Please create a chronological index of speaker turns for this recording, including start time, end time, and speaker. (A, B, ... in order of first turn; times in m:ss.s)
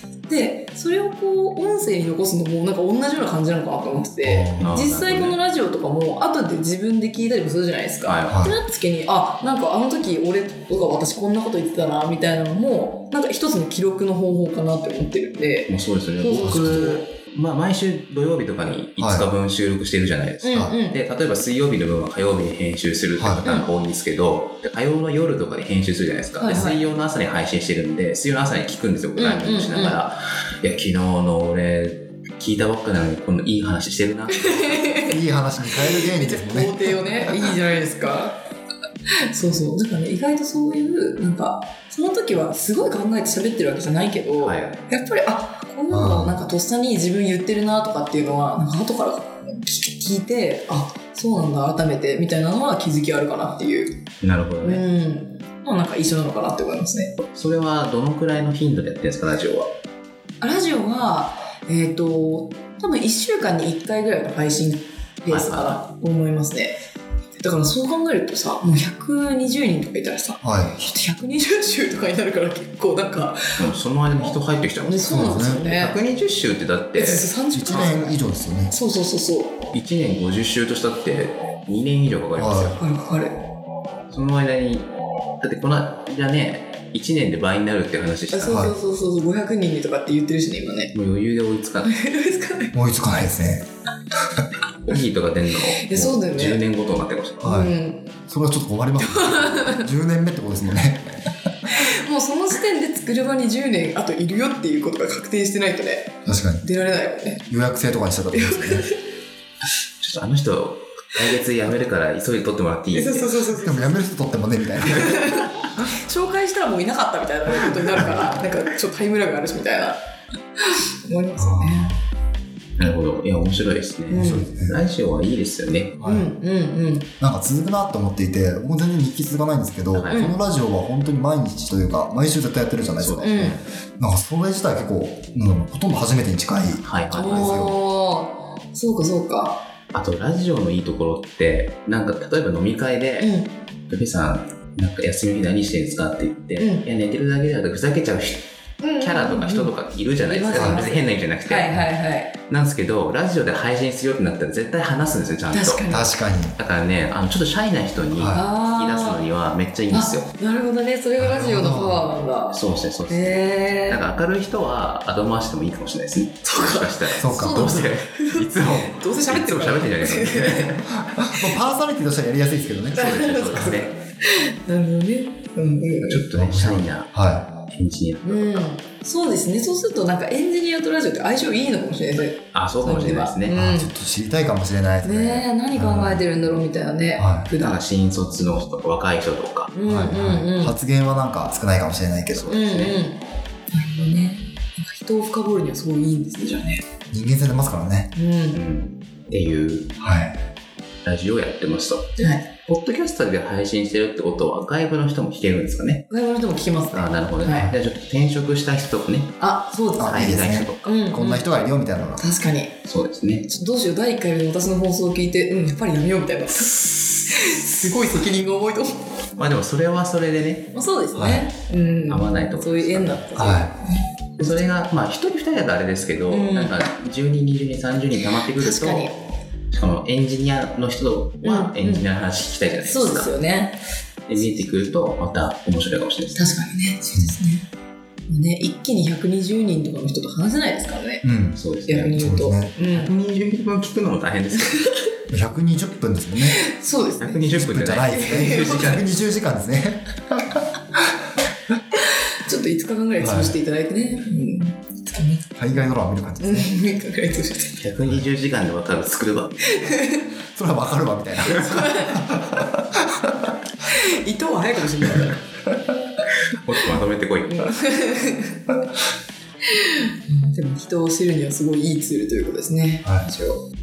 0:00.3-0:17.0 A
0:04.2-0:04.8 B
0:04.6-0:05.4 C
0:08.0-0:08.4 C
0:08.3-0:08.6 B
0:15.7-0:35.1 C
0:16.4-0:16.9 B
0:19.0-0:19.3 B
0:20.4-0:21.0 A
0:20.5-0:20.8 B
0:23.2-0:23.4 B
0:23.4-0:23.7 A
0:26.4-0:26.8 A
0:29.2-0:30.0 A
0:34.4-0:35.2 A
0:35.1-0:36.7 B
0:35.7-0:38.4 A
0:39.3-0:54.0 A
0:44.4-0:44.8 C
0:45.9-0:46.5 B
0:54.2-0:54.8 C
0:54.6-0:57.2 A
0:57.2-0:59.7 C
1:00.4-1:06.8 A
1:05.3-1:05.8 C
1:07.4-1:13.6 A
1:10.4-1:10.8 B
1:13.6-1:17.3 C
1:14.8-1:16.0 A
1:15.1-1:15.6 B
1:16.9-1:19.6 A
1:17.5-1:18.7 B
1:19.7-1:22.8 C
1:22.4-1:22.8 B
1:22.7-1:23.4 A
1:24.1-1:24.9 C
1:25.4-1:28.6 C
1:28.3-1:30.9 A
1:28.5-1:28.8 B
1:30.9-1:31.9 C
1:31.8-1:32.7 A
1:32.7-1:33.6 B
1:34.8-1:37.5 C
1:35.8-1:36.6 A
1:37.4-1:37.7 B
1:37.4-1:38.1 A
1:38.3-1:41.0 B
1:39.0-1:39.9 A
1:41.7-1:47.4 A
1:46.2-1:46.6 B
1:47.5-1:48.8 B
1:48.3-1:49.0 A
1:50.0-1:53.3 C
1:52.9-1:54.0 A
1:53.5-1:55.3 B
1:54.9-2:00.0 A
2:00.6-2:02.0 A
2:01.4-2:02.0 B
2:02.8-2:06.0 C
2:04.1-2:04.5 A
2:04.1-2:04.8 B
2:06.0-2:06.3 B
2:06.0-2:07.1 A
2:07.2-2:17.8 B
2:09.9-2:10.2 C
2:10.1-2:10.4 A
2:13.0-2:13.6 C
2:13.2-2:13.6 A
2:16.8-2:17.6 C
2:17.1-2:19.6 A
2:19.9-2:23.3 C
2:23.2-2:23.5 A
2:23.9-2:28.5 C
2:26.6-2:26.9 A
2:28.8-2:32.3 A
2:29.0-2:31.8 C
2:30.5-2:30.9 B
2:32.5-2:35.8 C
2:35.5-2:36.1 A
2:35.9-2:36.6 B
2:36.6-2:40.3 C
2:38.1-2:38.4 B
2:38.3-2:39.2 A
2:39.9-2:44.1 A
2:41.2-2:42.1 B
2:42.5-2:50.9 C
2:46.5-2:50.8 A
2:47.2-2:47.6 B
2:51.1-2:53.8 B
2:52.9-2:53.9 C
2:53.0-2:56.2 A
2:56.0-2:57.1 C
2:56.3-2:57.5 B
2:57.7-2:58.7 C
2:58.2-3:03.9 A
3:02.5-3:03.5 C
3:03.5-3:06.2 B
3:05.0-3:07.8 A
3:07.2-3:07.5 B
3:07.6-3:09.7 C
3:09.7-3:10.8 A
3:09.8-3:12.6 B
3:12.3-3:13.0 C
3:12.5-3:16.8 A
3:17.1-3:18.1 B
3:18.1-3:18.6 A
3:18.5-3:19.9 C
3:20.0-3:20.4 B
3:21.0-3:26.1 C
3:22.2-3:22.5 A
3:26.1-3:27.7 A
3:26.9-3:29.4 C
3:29.4-3:32.8 A
3:30.0-3:32.2 B
3:30.0-3:30.9 C
3:32.9-3:33.5 C
3:33.5-3:39.0 A
3:39.4-3:40.7 C
3:40.7-3:44.0 A
3:41.1-3:41.5 B
3:42.1-3:43.4 C
3:43.4-3:43.7 B
3:44.4-3:49.1 C
3:46.3-3:46.8 A
3:48.5-3:49.2 A
3:49.7-3:53.3 C
3:51.4-3:52.1 A
3:52.8-3:53.8 A
3:54.3-3:56.4 C
3:56.4-3:57.6 A
3:58.3-4:01.2 A
4:01.2-4:01.6 B
4:01.6-4:02.2 C
4:01.9-4:03.1 A
4:02.2-4:02.7 B
4:02.9-4:04.9 C
4:05.3-4:06.6 B
4:06.4-4:09.0 A
4:07.2-4:09.1 C
4:07.6-4:10.1 B
4:12.4-4:15.6 A
4:13.2-4:13.6 B
4:15.6-4:16.8 B
4:16.4-4:17.8 A
4:17.8-4:19.6 C
4:19.7-4:20.2 A
4:20.5-4:23.5 B
4:21.5-4:22.3 A
4:23.9-4:25.4 A
4:26.5-4:27.8 C
4:27.5-4:28.6 A
4:29.7-4:33.6 A